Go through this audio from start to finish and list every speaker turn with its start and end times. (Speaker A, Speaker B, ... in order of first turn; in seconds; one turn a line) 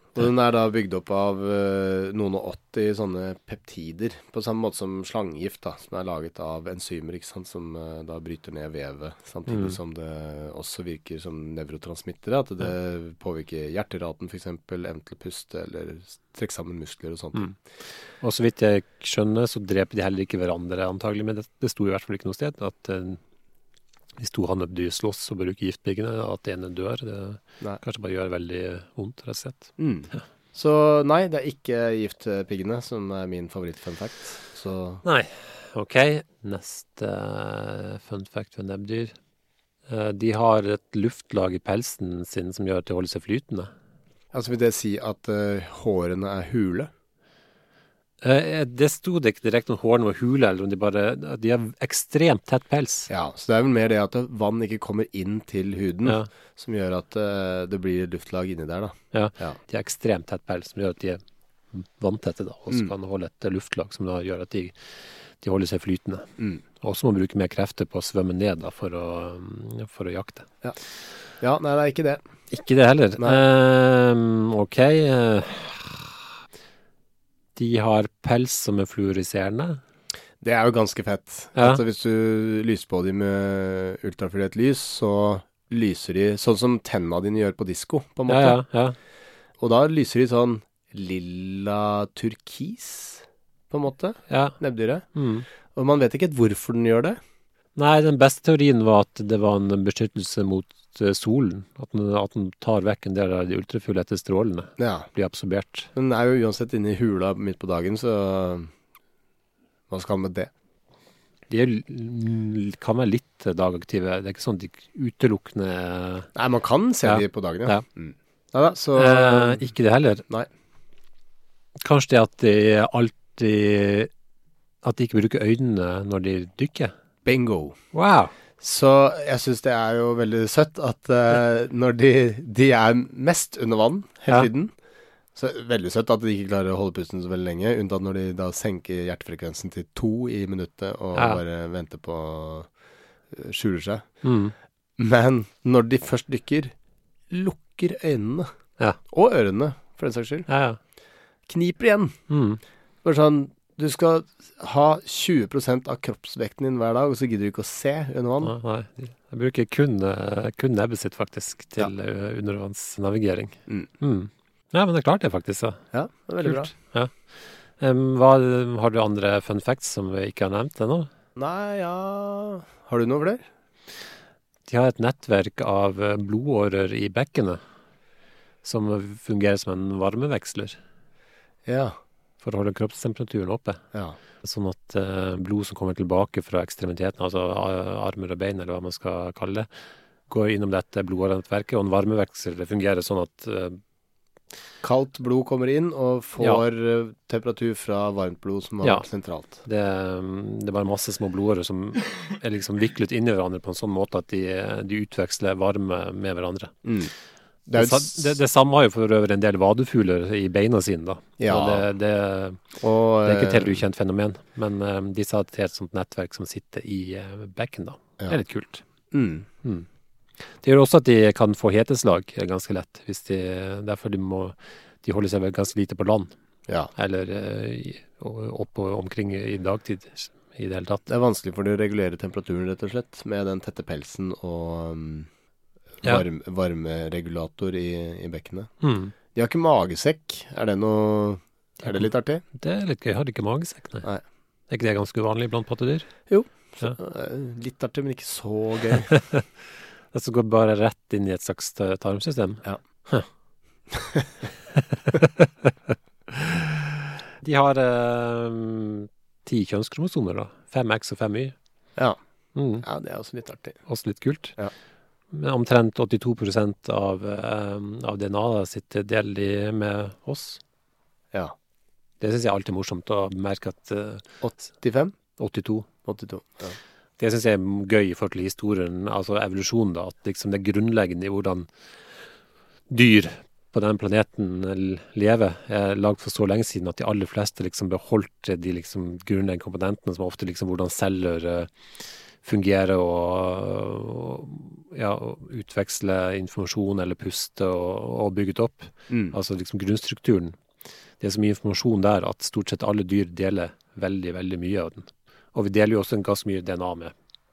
Speaker A: 0.1-17.5
Speaker B: 9.5-9.8
Speaker B: 18.2-23.2
Speaker B: 24.2-30.2
Speaker A: 29.8-35.0
Speaker B: 35.0-39.1
Speaker B: 39.9-43.7
Speaker A: 44.3-46.9
Speaker B: 48.2-53.1
Speaker A: 53.1-59.6
Speaker B: 59.1-61.2
Speaker B: 61.7-64.8
Speaker B: 65.4-66.3
Speaker B: 66.8-70.5
Speaker A: 71.4-72.2
Speaker B: 72.5-76.2
Speaker B: 77.6-79.8
Speaker A: 80.4-88.6
Speaker B: 81.6-81.8
Speaker B: 88.3-89.0
Speaker A: 89.6-95.1
Speaker B: 94.3-94.6
Speaker B: 95.1-95.5
Speaker A: 95.7-97.2
Speaker B: 97.8-105.9
Speaker A: 104.8-105.1
Speaker A: 105.9-108.7
Speaker A: 109.9-110.5
Speaker B: 111.5-116.3
Speaker A: 116.3-119.6
Speaker B: 117.0-117.8
Speaker B: 119.0-120.2
Speaker B: 121.8-124.1
Speaker B: 124.8-126.9
Speaker A: 127.2-127.8
Speaker B: 127.9-128.3
Speaker A: 128.6-134.7
Speaker A: 135.3-142.7
Speaker B: 141.2-141.4
Speaker A: 143.3-144.1
Speaker B: 144.2-144.5
Speaker A: 145.0-146.7
Speaker A: 147.3-148.5
Speaker A: 149.1-150.5
Speaker B: 150.5-150.8
Speaker A: 151.5-152.2
Speaker B: 152.3-152.6
Speaker A: 153.0-158.6
Speaker B: 158.4-165.8
Speaker A: 165.9-166.7
Speaker B: 166.4-167.1
Speaker B: 167.8-171.1
Speaker A: 171.4-173.5
Speaker B: 174.7-177.6
Speaker B: 178.6-180.8
Speaker A: 181.7-182.0
Speaker B: 182.4-183.8
Speaker B: 184.4-189.7
Speaker B: 190.3-193.8
Speaker A: 194.8-199.6
Speaker B: 198.8-206.8
Speaker A: 206.8-207.1
Speaker A: 207.7-208.3
Speaker B: 207.7-212.6
Speaker A: 211.4-211.9
Speaker A: 212.8-213.8
Speaker B: 213.2-218.8
Speaker A: 219.1-219.5
Speaker B: 220.4-226.3
Speaker B: 226.9-231.0
Speaker A: 231.1-235.3
Speaker A: 236.0-238.7
Speaker B: 238.8-239.1
Speaker A: 239.3-242.4
Speaker B: 241.8-244.1
Speaker B: 244.7-246.1
Speaker A: 246.3-249.1
Speaker B: 249.1-249.4
Speaker B: 250.1-253.3
Speaker A: 253.9-254.3
Speaker B: 255.1-255.7
Speaker B: 256.3-256.8
Speaker B: 257.4-261.6
Speaker B: 262.6-262.9
Speaker A: 262.8-263.8
Speaker B: 263.9-264.6
Speaker B: 265.3-270.6
Speaker B: 272.2-274.2
Speaker A: 274.4-275.1
Speaker B: 275.4-275.9
Speaker A: 276.1-276.8
Speaker B: 277.2-281.7
Speaker B: 282.9-291.7
Speaker B: 292.4-300.6
Speaker A: 299.1-299.4
Speaker B: 301.2-307.1